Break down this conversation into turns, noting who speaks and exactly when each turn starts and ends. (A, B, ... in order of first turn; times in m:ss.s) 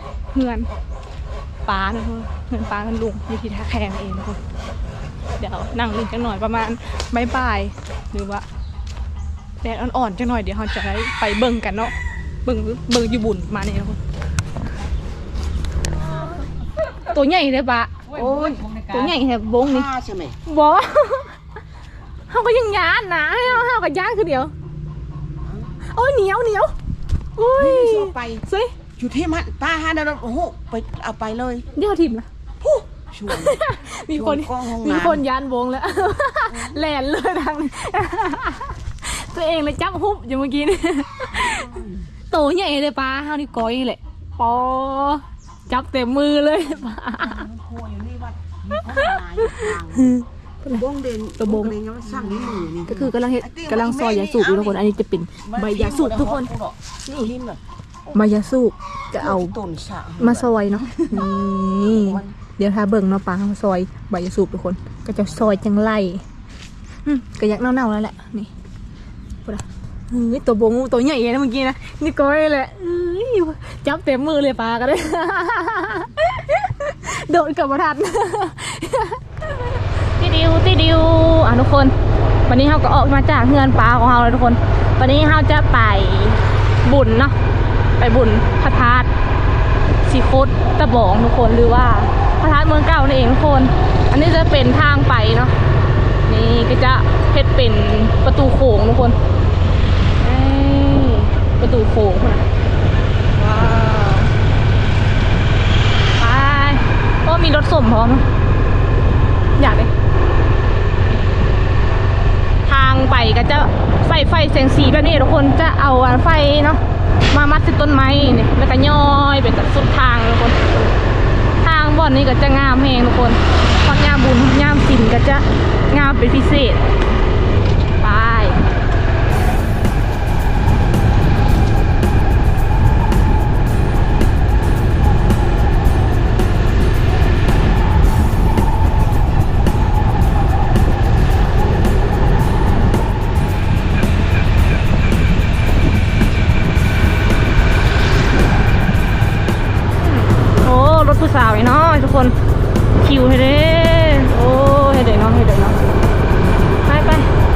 0:00.3-0:00.7 A
0:01.6-0:04.4 A
0:05.4-0:08.4 A
0:09.6-0:11.9 A
0:12.4-0:14.0 A
0:16.8-0:19.9 A
0:18.1-0:19.1 B
0:19.7-0:20.4 B
0:20.4-0:21.4 A
0:22.3-0:24.5 A
0:25.8-0:26.7 A
0:27.4-0:28.7 A
0:27.6-0:28.4 B
0:29.0-0:31.6 B
0:31.7-0:32.3 A
0:32.7-0:33.6 B
0:33.3-0:41.7 A
0:34.1-0:35.2 B
0:41.4-0:42.1 B
0:42.3-0:47.5 A
0:47.2-0:50.1 B
0:48.8-0:50.8 A
0:50.7-0:54.8 B
0:51.4-0:51.7 A
0:52.3-0:56.5 A
0:55.5-0:57.6 B
0:57.0-0:57.3 A
0:58.1-0:59.6 A
0:59.2-1:00.4 B
1:00.2-1:06.2 A
1:02.0-1:02.3 B
1:07.0-1:08.5 A
1:09.4-1:21.9 A
1:22.5-1:27.4 A
1:28.0-1:29.1 A
1:30.0-1:35.5 A
1:36.2-1:39.2 A
1:40.2-1:42.4 A
1:43.3-1:44.3 A
1:46.2-1:48.2 A
1:49.6-1:49.9 A
1:52.6-2:00.8 A
2:01.6-2:06.8 A
2:08.0-2:08.6 A
2:30.0-2:32.3 A
2:33.0-2:35.8 A
2:36.8-2:37.3 A